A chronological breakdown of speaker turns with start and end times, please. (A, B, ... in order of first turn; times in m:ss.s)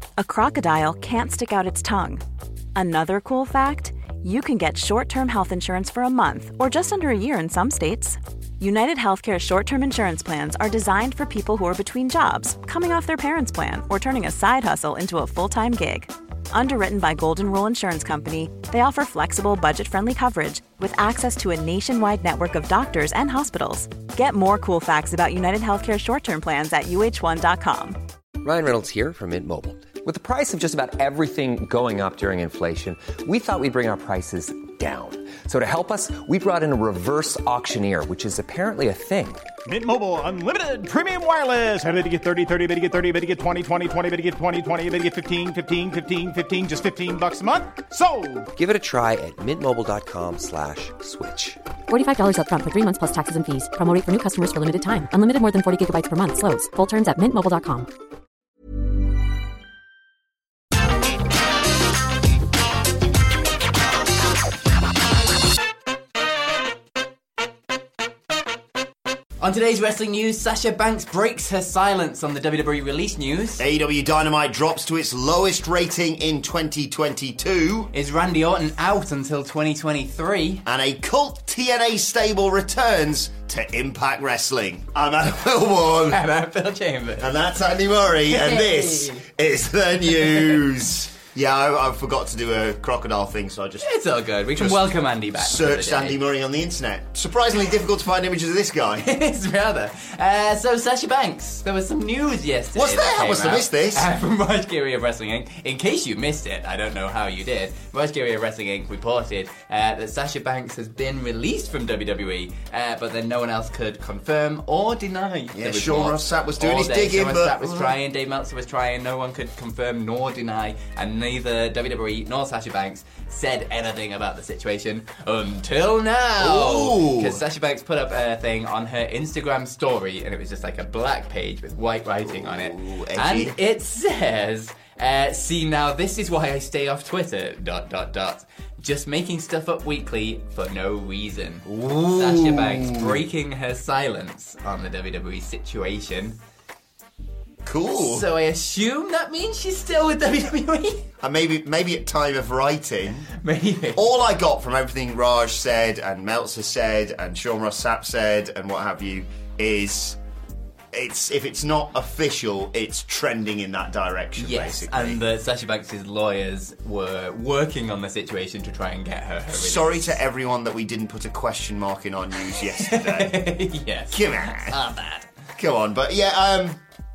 0:00.2-0:02.2 A
0:02.7-0:28.0 A
0:28.4-0:39.5 B
0:39.6-0:48.5 C
0:48.6-0:51.6 B
0:51.9-0:57.9 D
1:09.4-1:13.6 E
1:13.6-1:17.9 F
1:17.9-1:20.6 E
1:20.6-1:26.2 F
1:26.0-1:27.3 E
1:27.2-1:33.9 F
1:28.2-1:29.3 E
1:33.8-1:36.2 E
1:34.5-1:39.1 F
1:39.0-2:26.4 E
1:42.7-1:44.1 F
1:55.5-1:57.9 F
2:06.4-2:07.4 F
2:12.2-2:13.6 F
2:21.6-2:23.2 F
2:27.6-2:28.2 F
2:27.9-2:31.1 E
2:31.2-2:33.3 F
2:33.3-2:34.0 E
2:33.9-2:40.2 F
2:40.9-2:45.2 F
2:44.4-2:50.2 E
2:49.5-2:53.5 F
2:52.5-2:55.3 E
2:54.1-2:54.8 F
2:55.6-2:56.8 F